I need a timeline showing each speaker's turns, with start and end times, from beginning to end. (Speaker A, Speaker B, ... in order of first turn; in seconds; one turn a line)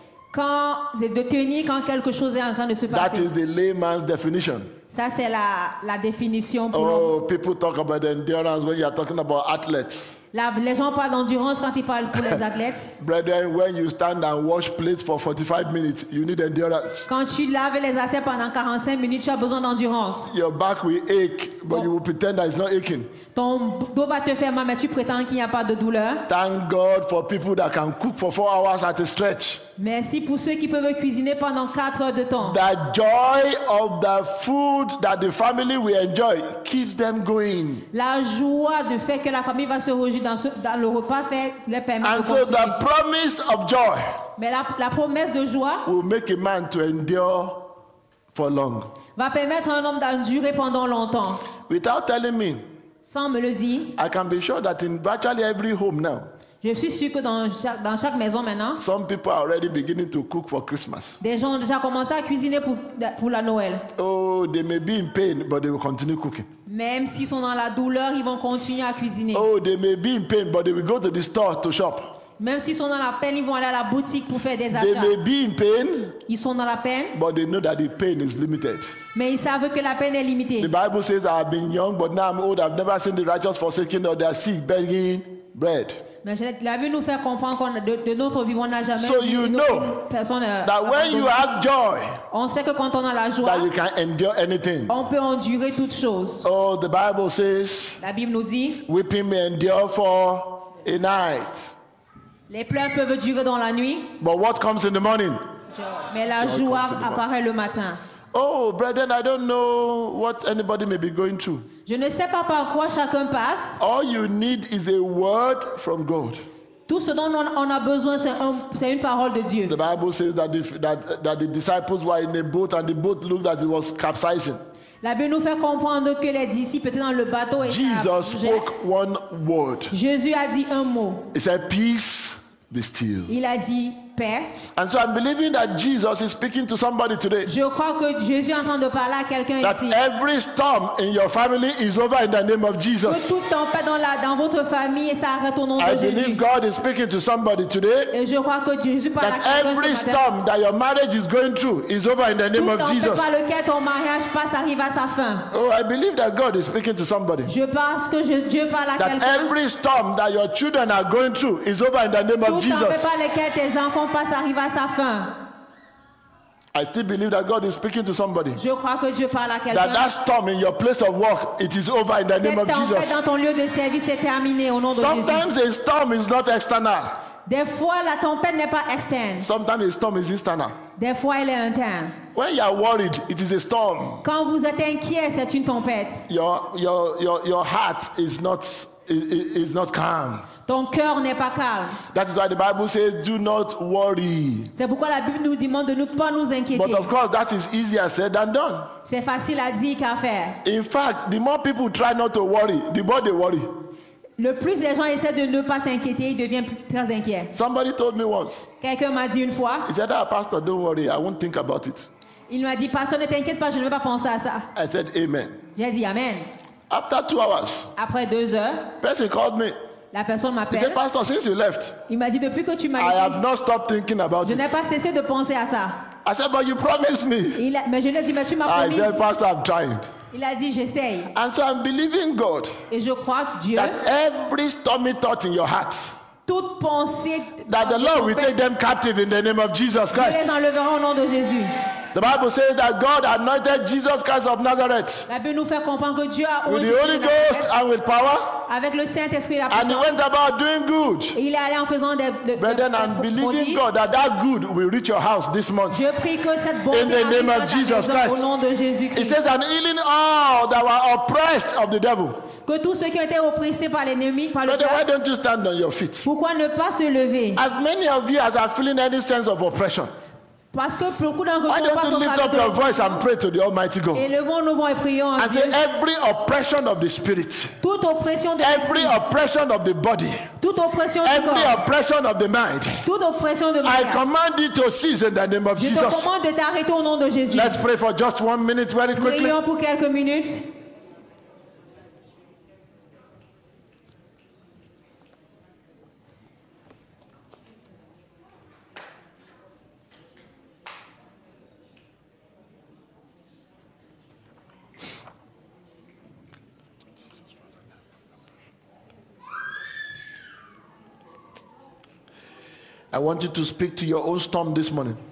Speaker A: 0.3-3.3
Speaker B: 2.9-4.7
Speaker A: 4.9-7.1
Speaker B: 6.7-10.2
Speaker A: 10.3-12.9
Speaker B: 13.0-17.1
Speaker A: 17.1-20.3
Speaker B: 20.3-23.1
Speaker A: 23.3-26.2
Speaker B: 26.3-29.6
Speaker A: 29.8-32.6
Speaker B: 32.4-37.9
Speaker A: 37.9-42.8
Speaker B: 42.0-44.2
Speaker A: 44.4-45.9
Speaker B: 45.8-47.7
Speaker B: 48.3-48.9
Speaker A: 49.1-51.4
Speaker B: 51.6-52.6
Speaker A: 53.0-53.9
Speaker B: 54.0-56.3
Speaker A: 56.6-58.8
Speaker B: 58.8-61.2
Speaker A: 61.2-63.9
Speaker B: 64.0-66.5
Speaker A: 66.7-69.5
Speaker B: 69.3-72.1
Speaker A: 72.4-75.1
Speaker B: 74.7-76.2
Speaker A: 76.3-77.1
Speaker B: 77.1-79.0
Speaker A: 79.1-80.7
Speaker B: 80.6-86.0
Speaker A: 86.2-91.4
Speaker B: 89.0-90.0
Speaker B: 90.6-92.2
Speaker A: 92.3-93.7
Speaker B: 93.4-94.9
Speaker A: 94.9-96.4
Speaker B: 96.4-98.0
Speaker A: 98.0-98.8
Speaker B: 98.8-101.7
Speaker A: 102.5-104.1
Speaker B: 104.2-105.4
Speaker A: 105.7-108.0
Speaker B: 106.4-107.2
Speaker B: 108.3-111.7
Speaker A: 111.8-113.8
Speaker B: 113.8-116.4
Speaker A: 116.9-119.7
Speaker B: 119.7-124.6
Speaker A: 125.0-128.7
Speaker B: 127.6-129.9
Speaker A: 129.9-131.3
Speaker B: 131.3-133.3
Speaker A: 133.3-134.6
Speaker B: 134.8-137.5
Speaker A: 137.4-140.0
Speaker B: 139.6-143.3
Speaker A: 143.0-146.4
Speaker B: 145.8-148.1
Speaker A: 148.1-150.2
Speaker B: 149.2-153.3
Speaker A: 152.5-155.5
Speaker B: 155.5-157.5
Speaker A: 157.4-159.5
Speaker B: 159.0-163.1
Speaker A: 162.4-165.4
Speaker B: 166.7-168.6
Speaker A: 168.5-170.1
Speaker B: 169.7-173.1
Speaker A: 172.4-175.5
Speaker B: 174.9-177.2
Speaker A: 177.4-179.5
Speaker B: 179.4-180.8
Speaker A: 181.0-182.2
Speaker B: 182.3-184.2
Speaker A: 184.2-186.2
Speaker B: 186.3-190.5
Speaker A: 190.7-192.0
Speaker B: 192.1-194.7
Speaker A: 194.8-197.1
Speaker B: 196.7-198.9
Speaker A: 199.0-200.6
Speaker B: 200.6-203.7
Speaker A: 204.4-207.5
Speaker B: 207.5-208.7
Speaker A: 208.8-209.9
Speaker B: 209.8-212.1
Speaker A: 212.5-214.7
Speaker B: 214.7-215.6
Speaker A: 215.8-216.4
Speaker B: 216.9-217.9
Speaker A: 218.0-218.9
Speaker B: 219.0-219.8
Speaker A: 220.1-221.0
Speaker B: 220.7-222.0
Speaker A: 222.1-223.4
Speaker B: 223.0-224.6
Speaker A: 224.4-226.0
Speaker B: 226.2-227.6
Speaker A: 227.6-229.2
Speaker B: 228.7-230.1
Speaker A: 230.3-231.3
Speaker B: 231.3-232.7
Speaker A: 232.9-234.0
Speaker B: 233.7-236.1
Speaker A: 236.5-238.6
Speaker B: 237.6-240.4
Speaker A: 240.1-241.7
Speaker B: 242.1-245.3
Speaker A: 245.3-247.7
Speaker B: 246.7-248.6
Speaker A: 248.7-250.2
Speaker B: 249.7-251.4
Speaker A: 251.3-253.8
Speaker B: 252.6-256.0
Speaker A: 255.9-259.4
Speaker B: 256.9-258.5
Speaker B: 259.1-262.4
Speaker A: 262.6-265.0
Speaker B: 264.6-266.3
Speaker A: 266.2-267.6
Speaker B: 267.6-270.1
Speaker A: 270.7-273.2
Speaker B: 271.7-274.2
Speaker A: 274.1-275.8
Speaker B: 275.4-277.7
Speaker A: 277.8-279.2
Speaker B: 278.6-280.5
Speaker A: 280.6-281.8
Speaker B: 281.2-283.1
Speaker A: 283.0-284.2
Speaker B: 283.8-286.3
Speaker A: 285.8-287.8
Speaker B: 287.5-289.6
Speaker A: 289.1-290.7
Speaker B: 313.1-315.2